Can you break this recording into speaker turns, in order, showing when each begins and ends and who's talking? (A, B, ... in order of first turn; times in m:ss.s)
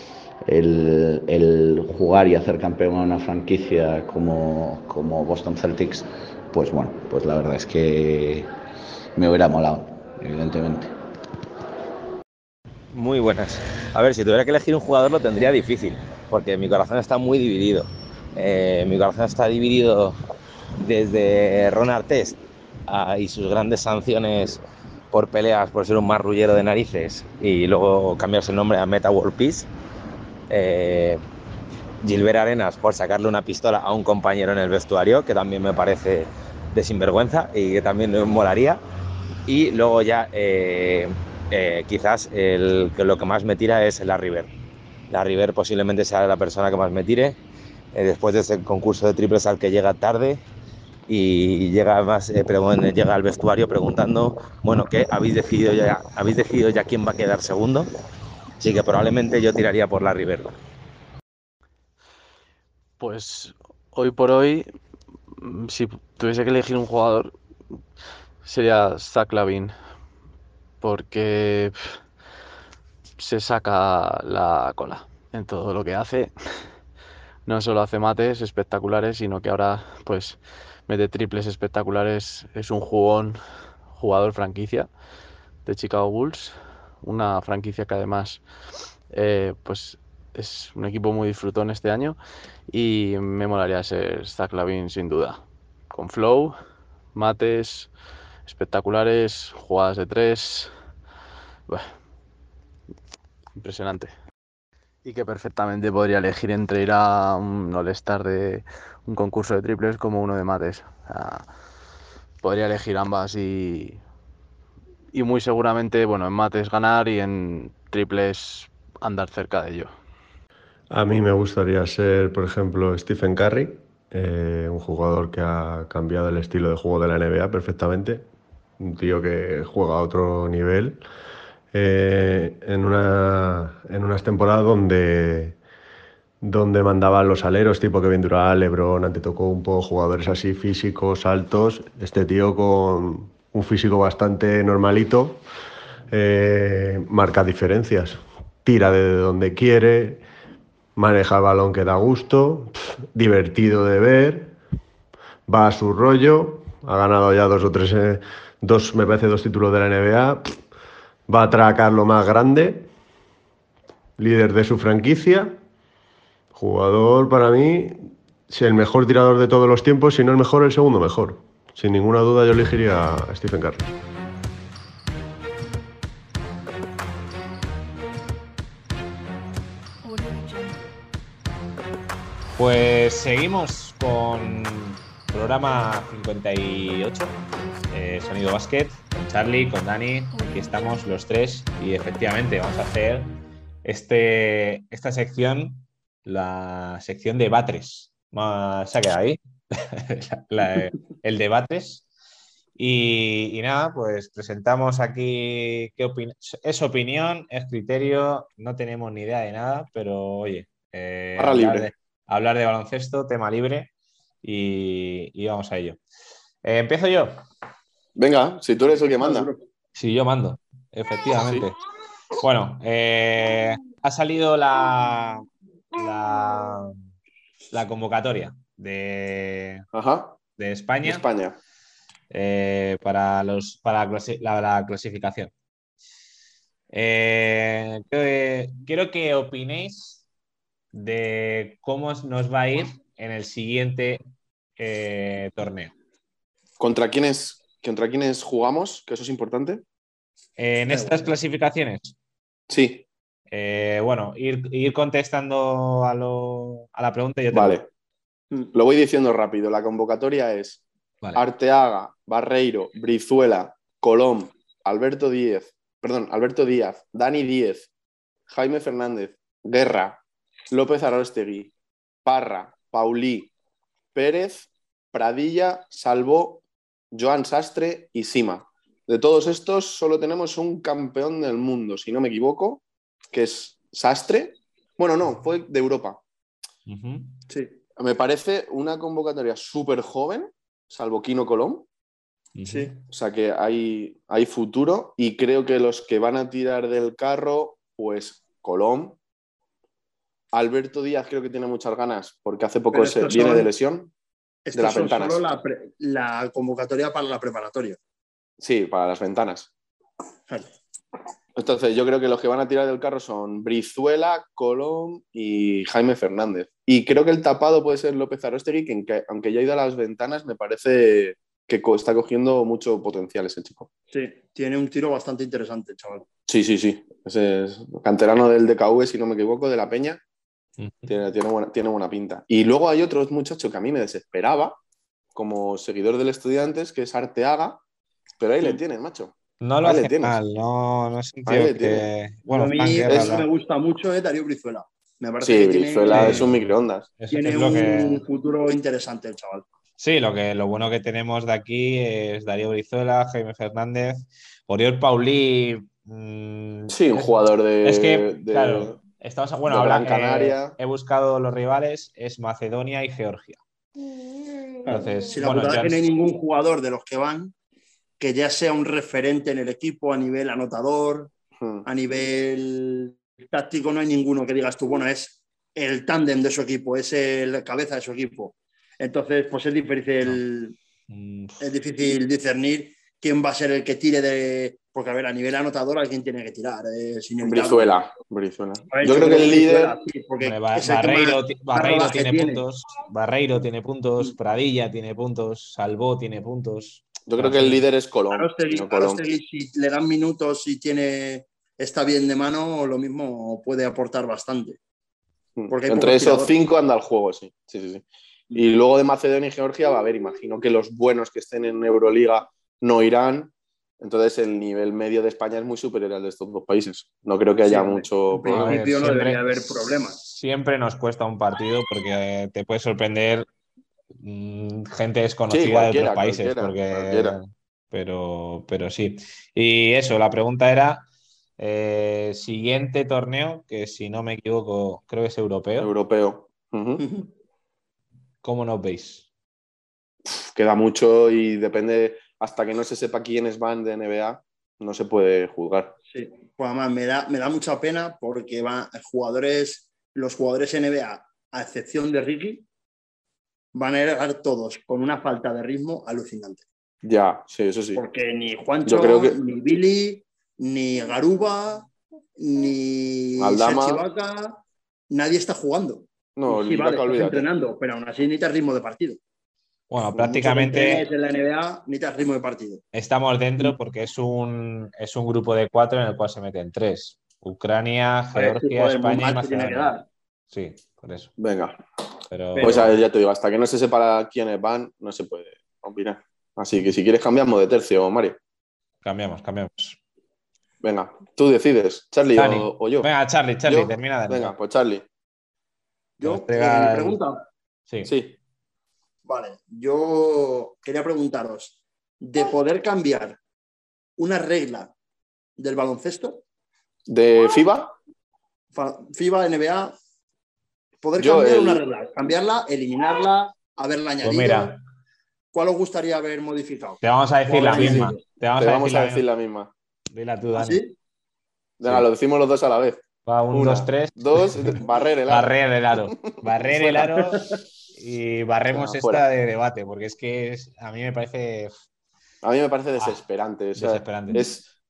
0:00.5-0:08.5 A
0:09.2-0:10.9 A
0:12.9-0:20.2 B
0:20.8-0:29.7 B
0:30.5-0:31.2 B
0:32.0-0:38.8 B
0:39.5-0:44.5 B
0:45.1-0:47.4 B
0:47.9-0:50.4 B
0:51.1-0:57.9 B
0:58.6-1:00.5 B
1:03.0-1:04.7 C
1:05.4-1:07.3 C
1:08.4-1:09.7 C
1:10.8-1:12.0 C
1:13.2-1:16.7 C
1:17.5-1:24.9 C
1:25.6-1:32.2 C
1:32.7-1:36.6 C
1:37.1-1:37.9 C
1:38.4-1:40.7 C
1:41.7-1:42.0 C
1:43.6-1:44.1 C
1:45.0-1:51.5 C
1:52.4-1:54.0 C
1:55.1-1:59.9 C
2:00.9-2:08.3 D
2:08.8-2:11.0 D
2:11.7-2:15.6 D
2:16.4-2:25.4 D
2:26.1-2:30.2 D
2:31.0-2:34.5 D
2:35.5-2:40.6 D
2:41.3-2:42.9 D
2:44.2-2:45.6 D
2:46.5-2:53.9 D
3:02.6-3:07.4 E
3:07.9-3:22.0 E
3:22.8-3:33.9 E
3:31.4-3:31.9 F
3:34.4-3:36.0 E
3:36.6-3:37.4 E
3:38.2-3:39.5 F
3:39.2-3:39.6 G
3:40.0-3:41.8 E
3:41.4-3:41.7 F
3:42.4-3:46.9 E
3:47.7-3:49.9 E
3:49.9-3:50.4 F
3:50.6-3:51.2 E
3:51.0-3:51.6 F
3:52.3-3:55.5 E
3:56.9-4:00.2 E
4:00.9-4:04.2 E
4:04.8-4:05.9 E
4:06.8-4:09.8 F
4:10.6-4:12.2 E
4:10.9-4:11.3 G
4:12.7-4:13.0 F
4:13.5-4:17.8 E
4:17.5-4:17.9 F
4:18.7-4:20.8 F
4:21.4-4:27.9 F
4:28.5-4:30.2 F
4:30.7-4:31.7 F
4:32.2-4:33.5 F
4:34.1-4:46.2 F
4:46.9-4:47.4 E
4:47.5-4:47.8 G
4:48.0-4:51.9 F
4:52.6-4:53.0 E
4:52.7-4:52.9 G
4:53.1-4:59.2 F
5:00.5-5:04.1 F
5:02.9-5:03.7 G
5:04.7-5:08.0 G
5:04.7-5:05.5 F
5:08.6-5:09.7 F
5:11.6-5:23.9 F
5:24.1-5:26.3 G
5:26.5-5:30.2 F
5:30.8-5:31.1 E
5:31.1-5:34.8 F
5:35.4-5:37.8 F
5:38.4-5:40.4 F
5:39.6-5:43.5 E
5:41.5-5:42.1 F
5:42.5-5:46.5 G
5:45.4-5:47.2 F
5:46.1-5:46.7 E
5:47.2-5:48.2 E
5:47.3-5:49.6 G
5:50.0-6:03.6 E
5:56.9-5:59.0 F
5:59.6-6:00.8 F
6:04.8-6:07.5 G
6:04.9-6:06.0 E
6:08.2-6:11.3 G
6:11.6-6:11.9 F
6:11.8-6:20.8 G
6:21.1-6:21.6 E
6:21.6-6:27.9 G
6:27.4-6:30.0 F
6:28.9-6:32.6 G
6:30.4-6:37.8 E
6:37.3-6:39.2 F
6:38.3-6:44.8 G
6:45.6-6:58.8 F
6:45.7-6:46.5 G
6:57.7-7:00.2 G
6:58.5-7:03.5 E
7:04.2-7:07.4 E
7:05.5-7:07.4 F
7:07.9-7:11.0 E
7:11.6-7:15.9 E
7:15.8-7:17.0 F
7:17.0-7:17.3 G
7:18.4-7:19.2 E
7:20.3-7:26.0 F
7:26.1-7:32.6 G
7:33.7-7:36.6 G
7:37.0-7:38.0 F
7:38.0-7:49.2 G
7:38.9-7:39.4 F
7:43.4-7:44.0 F
7:46.4-7:47.5 F
7:49.9-7:51.0 E
7:50.2-7:52.8 G
7:52.9-8:00.0 E
7:58.4-8:00.0 G
8:00.5-8:01.3 E
8:01.4-8:01.8 F
8:02.3-8:03.0 E
8:02.6-8:02.9 G
8:02.6-8:08.4 F
8:09.0-8:10.0 E
8:10.8-8:13.1 F
8:12.4-8:14.5 E
8:13.6-8:15.0 F
8:16.2-8:17.4 G
8:16.2-8:17.2 E
8:17.9-8:18.1 E
8:18.0-8:18.4 F
8:19.3-8:23.4 G
8:24.2-8:24.9 G
8:25.6-8:26.4 G
8:27.1-8:28.0 F
8:28.7-8:29.9 G
8:31.0-8:34.7 G
8:31.2-8:31.8 F
8:34.2-8:34.8 E
8:35.5-8:38.2 G
8:37.0-8:39.2 E
8:37.7-8:39.7 F
8:40.1-8:40.8 E
8:40.6-8:40.9 G
8:41.8-8:47.1 F
8:43.3-8:51.7 E
8:48.7-8:49.2 F
8:52.4-8:54.7 F
8:53.8-8:54.4 E